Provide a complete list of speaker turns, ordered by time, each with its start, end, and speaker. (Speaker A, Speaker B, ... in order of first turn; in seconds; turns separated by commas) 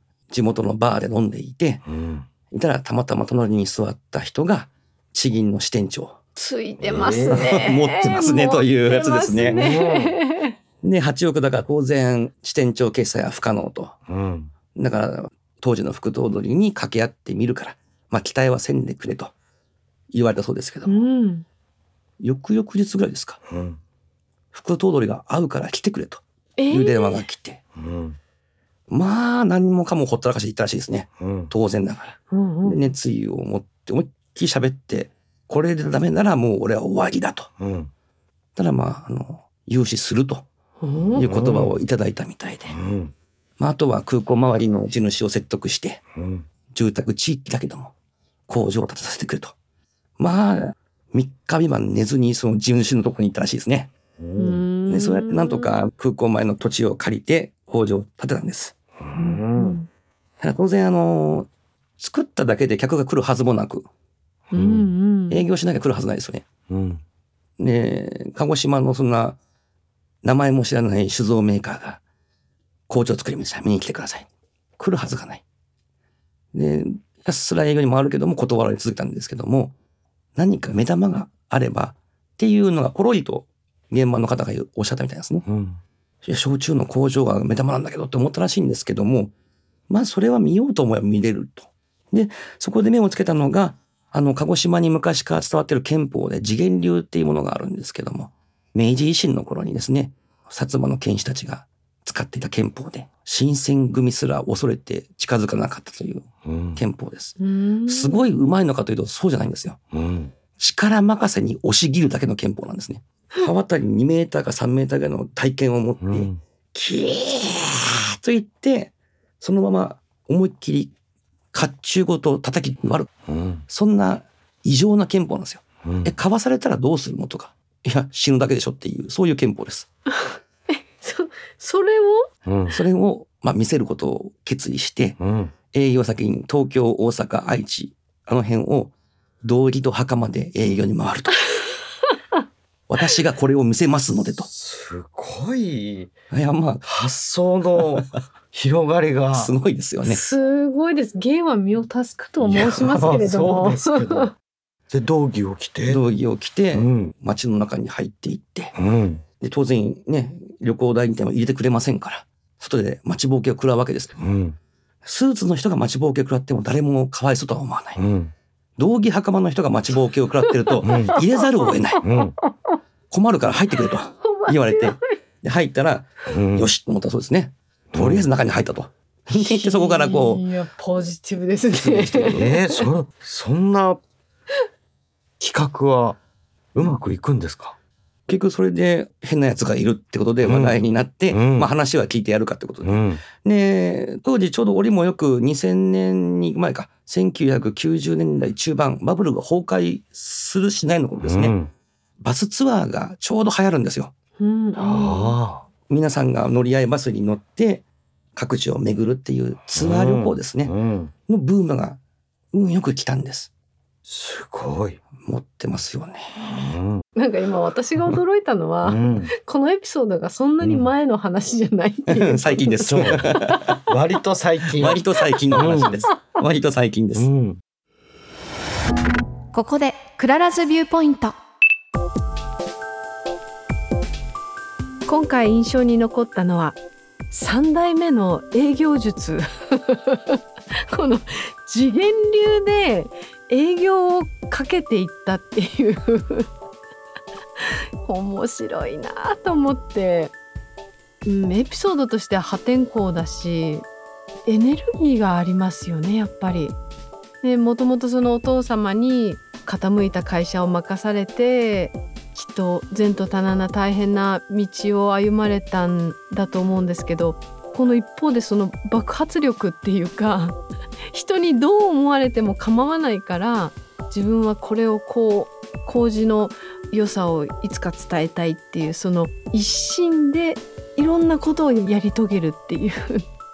Speaker A: 0.3-1.8, Speaker B: 1.9-2.2, Speaker A: 2.5-6.2, Speaker C: 6.3-10.6, Speaker B: 6.8-7.5, Speaker A: 7.3-9.7, Speaker B: 9.4-10.2, Speaker A: 10.8-13.9, Speaker B: 14.1-14.5, Speaker A: 14.7-19.3, Speaker A: 20.1-21.1, Speaker C: 20.8-21.4, Speaker A: 22.2-23.4, Speaker B: 23.5-23.8, Speaker A: 24.5-27.6, Speaker C: 26.6-27.2, Speaker B: 27.8-28.2, Speaker A: 28.9-37.5, Speaker B: 31.2-31.5, Speaker C: 32.3-32.9, Speaker B: 37.6-37.9, Speaker A: 38.5-40.5, Speaker C: 40.8-41.2, Speaker B: 41.1-41.7, Speaker A: 41.1-42.8, Speaker B: 42.7-43.1, Speaker A: 43.6-46.0, Speaker B: 46.1-46.4, Speaker A: 46.7-47.9, Speaker A: 48.5-49.5, Speaker A: 50.2-53.9, Speaker B: 54.2-54.6, Speaker C: 54.4-55.8, Speaker A: 54.9-58.7, Speaker B: 59.0-59.8, Speaker C: 59.1-59.9, Speaker A: 60.4-63.9, Speaker B: 64.5-64.9, Speaker C: 64.5-65.5, Speaker A: 65.3-66.5, Speaker B: 66.7-67.0, Speaker A: 67.6-69.4, Speaker A: 70.2-72.0, Speaker A: 72.9-74.3, Speaker A: 74.8-75.4, Speaker A: 76.5-79.7, Speaker A: 80.3-85.4, Speaker B: 85.5-85.8, Speaker A: 86.2-89.3, Speaker A: 89.9-109.8, Speaker B: 106.4-106.8, Speaker C: 107.4-108.2, Speaker B: 109.9-110.3, Speaker A: 110.5-120.9, Speaker B: 116.0-116.4, Speaker A: 121.5-123.1, Speaker B: 123.3-123.6, Speaker A: 123.7-129.9, Speaker B: 125.8-126.1, Speaker C: 130.7-132.3, Speaker B: 132.4-132.8, Speaker A: 132.7-135.2, Speaker B: 135.2-135.5, Speaker A: 135.7-141.5, Speaker A: 142.9-144.5, Speaker B: 144.3-146.1, Speaker A: 146.3-146.8, Speaker B: 146.8-149.5, Speaker A: 147.8-148.1, Speaker A: 149.3-150.2, Speaker C: 150.0-154.3, Speaker B: 152.4-154.3, Speaker B: 154.9-156.0, Speaker A: 155.8-158.8, Speaker B: 156.7-157.1, Speaker B: 158.8-159.2, Speaker A: 159.4-164.2, Speaker B: 164.2-164.6, Speaker A: 165.0-168.0, Speaker B: 168.0-168.3, Speaker A: 168.8-172.0, Speaker B: 170.8-171.1, Speaker C: 170.9-171.4, Speaker B: 172.0-172.3, Speaker A: 173.1-180.5, Speaker C: 174.2-175.1, Speaker B: 176.3-176.7, Speaker B: 177.9-178.3, Speaker C: 179.3-182.9, Speaker A: 181.7-182.5, Speaker B: 182.3-184.0, Speaker B: 185.4-186.2, Speaker B: 186.7-187.8, Speaker A: 188.3-201.6, Speaker B: 190.4-190.8, Speaker B: 191.3-191.7, Speaker B: 192.8-193.2, Speaker B: 201.2-201.7, Speaker A: 202.2-204.1, Speaker C: 204.4-205.4, Speaker B: 204.8-205.6, Speaker A: 205.9-207.8, Speaker A: 208.3-210.7, Speaker B: 209.8-211.1, Speaker A: 211.3-212.0, Speaker A: 212.5-213.5, Speaker B: 214.1-215.0, Speaker A: 215.2-216.6, Speaker B: 216.6-217.0, Speaker C: 217.2-223.8, Speaker B: 218.8-219.3, Speaker B: 220.6-220.9, Speaker A: 222.1-223.7, Speaker B: 222.8-223.3, Speaker B: 223.9-225.0, Speaker A: 224.8-227.3, Speaker B: 225.6-226.0, Speaker B: 227.1-227.6, Speaker C: 229.5-231.4, Speaker C: 235.1-236.8, Speaker C: 237.3-240.4, Speaker C: 240.9-246.5, Speaker C: 247.6-250.3, Speaker C: 251.2-253.8, Speaker C: 254.4-256.8, Speaker C: 257.4-270.6, Speaker C: 271.1-283.2